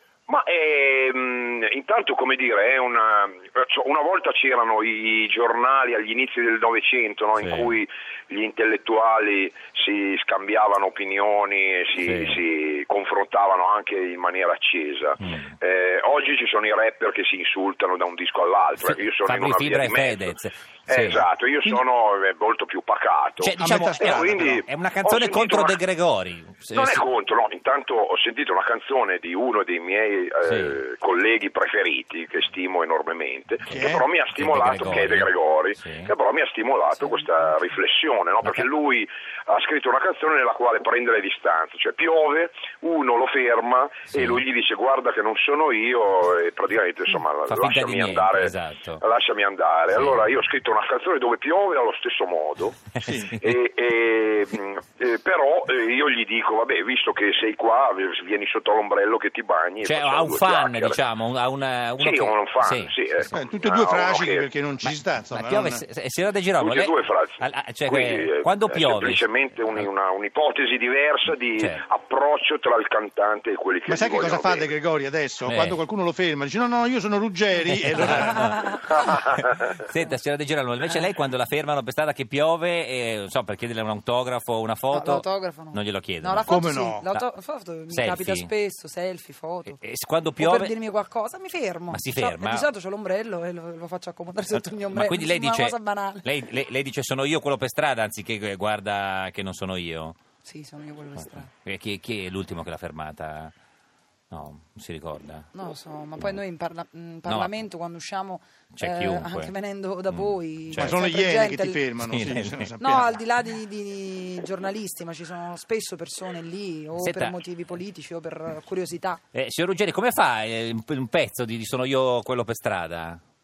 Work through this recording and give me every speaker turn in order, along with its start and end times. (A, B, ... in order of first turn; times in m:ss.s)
0:00.3-0:25.8 A
0:07.4-0:07.7 B
0:12.0-0:12.4 B
0:15.2-0:15.5 B
0:18.8-0:21.2 B
0:21.1-0:21.8 C
0:23.4-0:27.0 B
0:23.6-0:24.6 C
0:26.7-0:52.8 A
0:30.4-0:30.8 B
0:33.6-0:34.1 C
0:34.3-0:36.1 B
0:44.1-0:44.4 B
0:47.5-0:49.0 B
0:49.9-0:50.3 B
0:52.9-0:53.6 B
0:53.0-0:53.3 C
0:53.4-1:01.0 A
0:59.8-1:03.4 B
1:02.0-1:04.5 A
1:03.3-1:05.8 C
1:04.8-1:09.9 B
1:06.6-1:14.7 A
1:13.9-1:18.5 C
1:15.4-1:15.8 B
1:17.9-1:26.6 B
1:18.0-1:19.0 D
1:24.9-1:29.8 D
1:26.4-1:27.1 C
1:27.9-1:28.5 B
1:29.7-1:30.7 B
1:30.4-1:36.3 D
1:31.9-1:32.7 B
1:34.5-1:40.2 B
1:40.4-1:41.5 D
1:41.2-1:43.5 B
1:44.3-1:45.4 B
1:45.5-1:51.8 D
1:47.3-1:47.5 B
1:48.7-1:49.5 B
1:50.1-1:51.0 B
1:50.7-1:53.2 C
1:52.0-1:52.7 B
1:52.8-1:59.2 D
1:57.0-1:57.4 B
1:59.3-2:03.2 B